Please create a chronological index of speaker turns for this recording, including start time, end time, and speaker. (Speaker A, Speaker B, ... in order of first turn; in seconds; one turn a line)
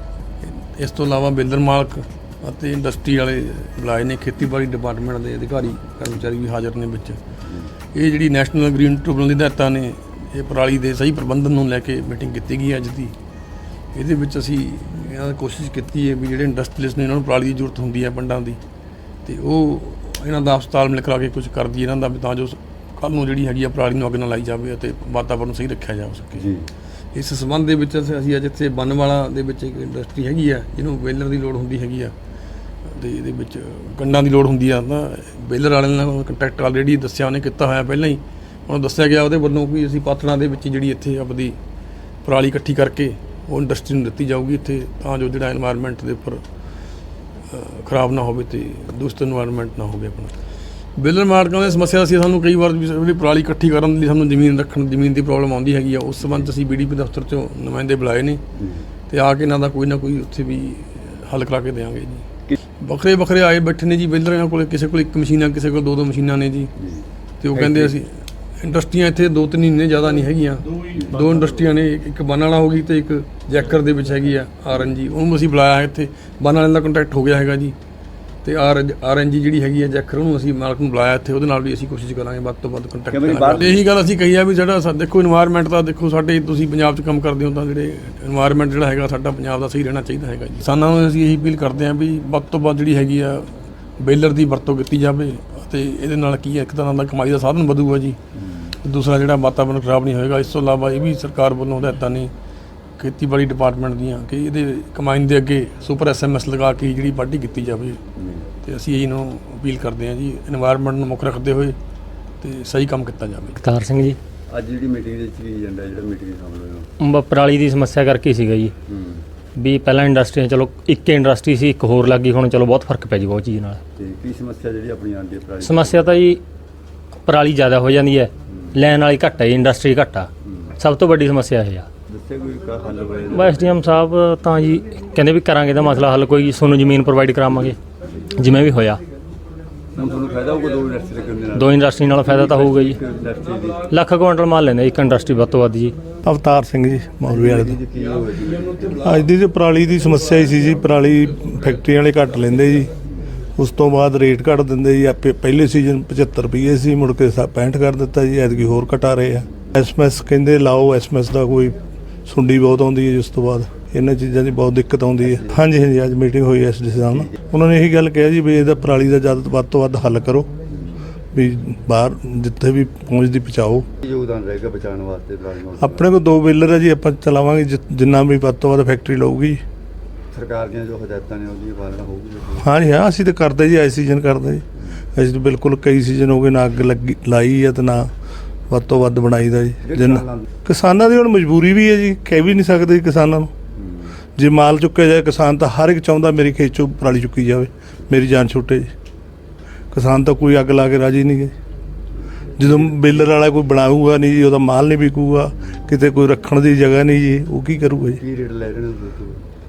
Speaker A: 0.4-7.2
Speaker B: 7.4-7.7
Speaker A: 7.9-13.2
Speaker A: 13.9-18.6
Speaker A: 19.2-26.5
Speaker B: 26.4-26.7
Speaker A: 27.1-32.1
Speaker A: 32.9-41.6
Speaker A: 42.2-46.4
Speaker A: 47.5-50.4
Speaker A: 51.0-58.4
Speaker B: 58.6-58.9
Speaker A: 59.1-62.3
Speaker A: 62.8-66.7
Speaker B: 66.8-67.9
Speaker A: 67.4-77.8
Speaker B: 70.9-71.3
Speaker A: 78.4-98.2
Speaker B: 83.1-83.9
Speaker B: 98.4-98.8
Speaker A: 98.8-102.3
Speaker A: 103.0-108.0
Speaker B: 108.2-108.5
Speaker A: 108.6-111.8
Speaker A: 112.4-113.6
Speaker C: 113.6-114.2
Speaker B: 114.5-116.9
Speaker C: 117.0-118.7
Speaker B: 118.9-119.2
Speaker C: 119.6-123.8
Speaker B: 124.0-126.2
Speaker C: 125.6-126.4
Speaker C: 127.3-131.9
Speaker B: 128.5-128.8
Speaker B: 130.4-130.7
Speaker B: 132.1-133.7
Speaker C: 133.3-137.8
Speaker C: 138.3-139.0
Speaker B: 139.9-143.9
Speaker C: 141.6-143.0
Speaker C: 143.9-146.0
Speaker D: 146.2-147.8
Speaker B: 147.3-149.1
Speaker D: 149.0-152.9
Speaker D: 153.6-170.5
Speaker B: 165.2-165.6
Speaker B: 170.7-171.0
Speaker D: 171.3-173.9
Speaker B: 174.0-176.1
Speaker D: 175.8-179.6
Speaker B: 180.3-182.7
Speaker D: 182.6-188.1
Speaker D: 188.7-193.5
Speaker B: 189.8-190.5
Speaker B: 193.7-194.2
Speaker D: 194.3-198.9
Speaker D: 199.9-201.5
Speaker D: 202.6-208.2
Speaker B: 208.2-209.4